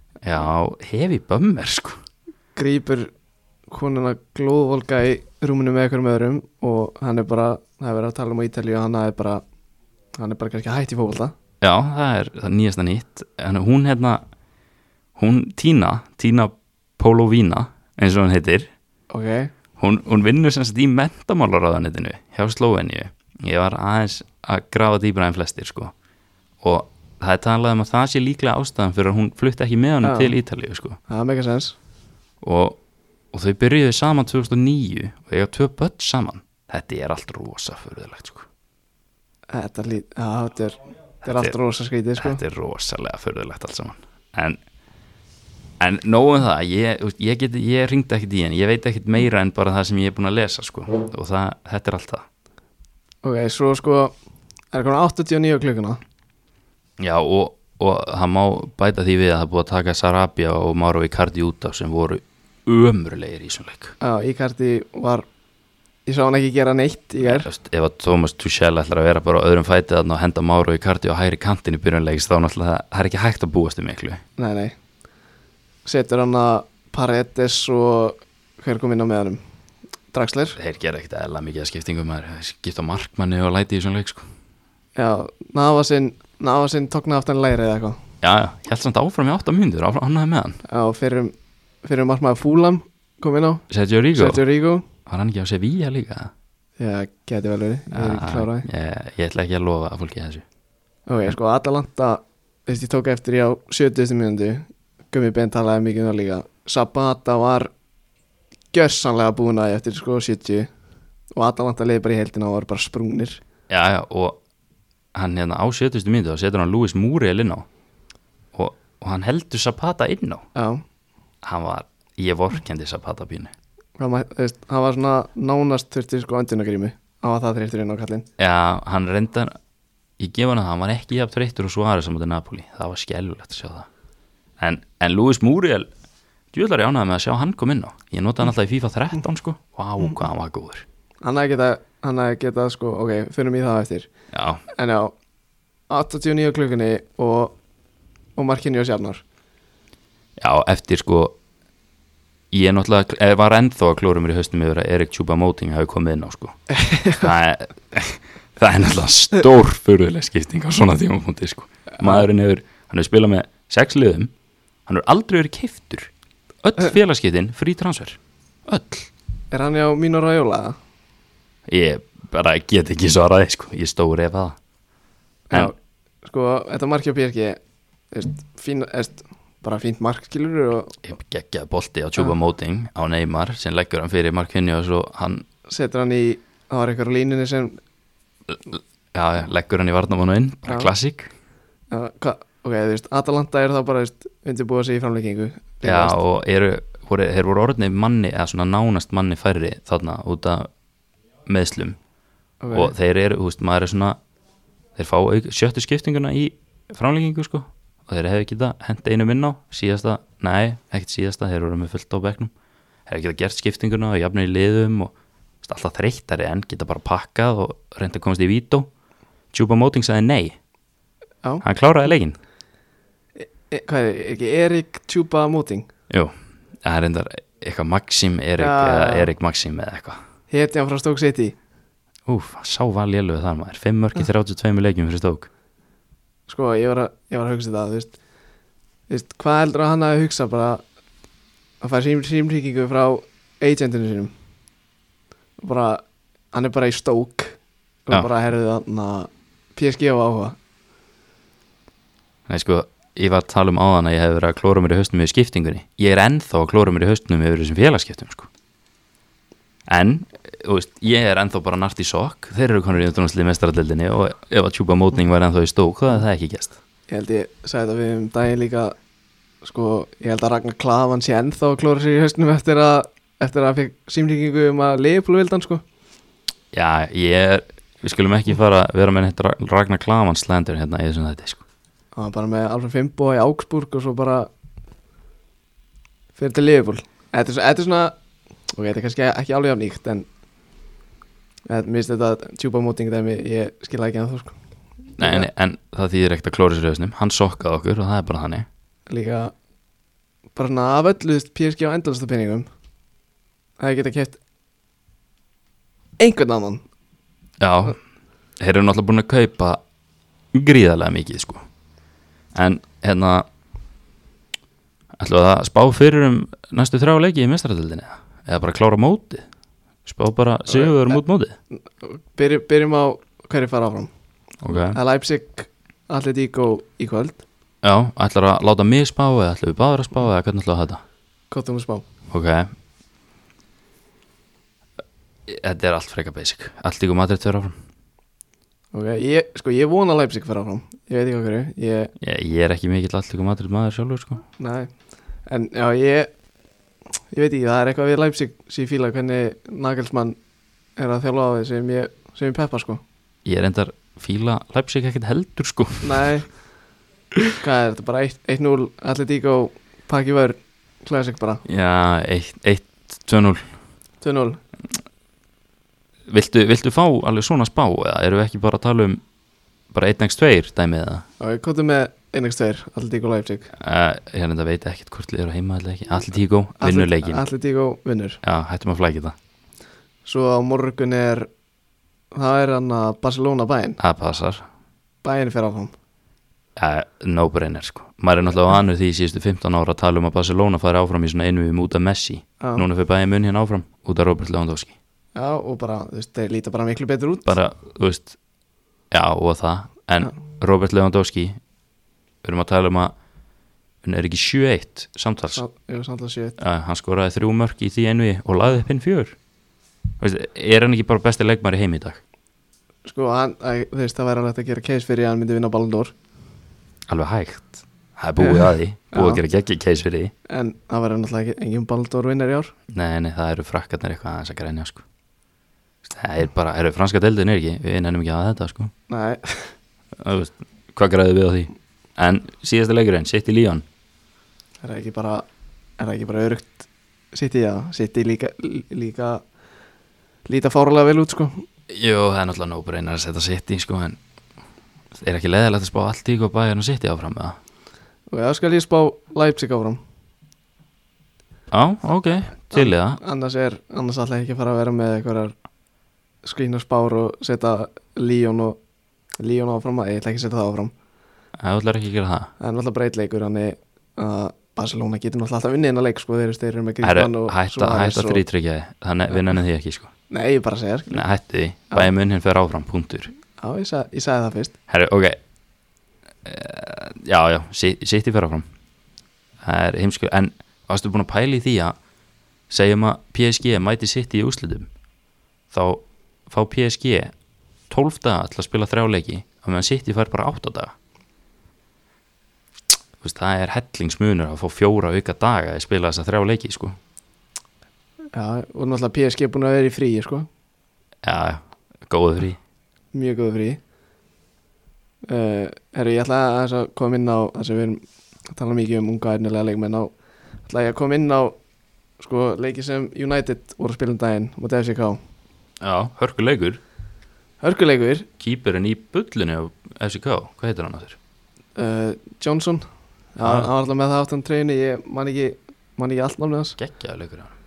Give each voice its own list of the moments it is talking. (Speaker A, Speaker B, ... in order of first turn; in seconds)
Speaker A: 0.2-2.0, 11.6-14.2, 15.2-18.7, 19.8-25.9, 26.6-31.0, 32.4-32.8, 33.3-38.5, 41.2-41.5, 42.2-44.6, 45.8-52.2, 57.0-63.9, 67.2-74.2, 80.6-84.2, 88.2-90.6, 93.7-94.4, 95.0-96.3, 97.9-100.4, 113.7-114.4, 115.1-117.7, 118.5-120.4, 121.4-123.5, 128.4-129.5, 130.2-133.9, 134.6-135.9, 136.5-140.8, 144.3-144.6, 150.4-151.3, 152.5-156.6, 157.1-164.3, 164.8-169.1, 171.7-174.6, 181.0-185.4, 188.5-191.3, 195.8-200.7, 201.4-202.0, 202.7-204.2, 204.9-212.5, 213.1-218.9, 219.5-220.6, 221.6-222.4, 226.1-230.2, 232.3-235.5, 252.5-258.5, 259.9-266.8, 276.7-281.6, 295.2-298.7, 307.6-308.0, 308.6-309.8, 310.5-311.6, 312.5-313.4, 315.2-319.5, 320.1-321.6, 324.6-325.0, 327.8-331.0, 332.3-332.7, 335.5-337.8, 342.2-344.4, 353.4-356.2, 361.6-363.6, 366.3-369.2, 369.9-371.2, 373.8-377.4, 378.4-379.3, 384.0-384.6, 386.8-394.9, 397.4-398.4, 399.1-401.6, 402.4-403.1, 404.0-405.6, 406.6-409.4, 410.2-412.2, 417.1-420.3, 422.9-425.0, 426.0-428.9, 430.1-433.8, 441.9-444.2, 445.1-447.6, 451.7-453.2, 461.6-462.5, 467.0-470.1, 471.1-473.3, 474.9-475.4, 476.4-478.6, 479.6-482.0, 482.7-484.9, 485.7-487.3, 487.9-490.9, 493.2-497.0, 501.2-502.6, 515.8-516.8, 518.4-521.2, 523.4-523.7, 526.8-527.5
Speaker B: 2.5-3.1, 3.7-9.4, 10.2-11.3, 19.1-19.5, 30.0-30.3, 31.1-31.8, 39.5-42.4, 53.2-54.1, 54.7-56.0, 64.0-65.3, 66.0-67.5, 74.4-74.8, 75.8-79.4, 80.1-80.6, 85.0-88.0, 90.6-94.9, 96.8-98.7, 101.1-107.7, 108.7-110.7, 111.3-113.4, 120.5-120.8, 124.0-128.2, 141.2-144.1, 144.7-145.1, 145.9-147.6, 148.3-149.2, 156.7-157.3, 169.5-170.8, 175.5-177.6, 178.1-180.9, 185.7-187.8, 191.9-196.2, 202.6-202.9, 223.4-225.9, 228.6-229.3, 230.5-231.6, 236.5-238.2, 239.1-240.8, 241.8-244.3, 245.6-250.6, 267.1-268.9, 269.6-275.8, 282.1-284.5, 286.4-288.1, 288.7-290.2, 291.7-294.6, 295.2-295.5, 299.1-299.5, 300.6-302.7, 303.8-304.4, 306.2-306.8, 320.7-320.9, 321.7-324.1, 324.7-327.4, 331.5-332.1, 338.9-342.1, 344.6-344.9, 345.4-346.3, 347.3-350.4, 351.0-353.0, 356.0-356.5, 357.6-361.6, 364.2-364.6, 371.4-373.7, 376.8-378.4, 380.2-381.5, 382.3-384.0, 385.2-385.9, 392.6-392.9, 395.3-397.5, 405.5-406.6, 413.0-416.1, 418.4-419.4, 420.5-422.7, 429.1-429.7, 434.8-435.4, 436.0-439.4, 440.5-441.6, 448.3-450.0, 452.7-455.5, 456.4-458.8, 459.4-460.9, 462.6-468.4, 470.3-471.2, 473.6-474.7, 498.3-500.5, 503.1-503.8, 505.2-510.1, 510.6-511.6, 512.2-515.2, 517.6-518.3, 521.8-526.8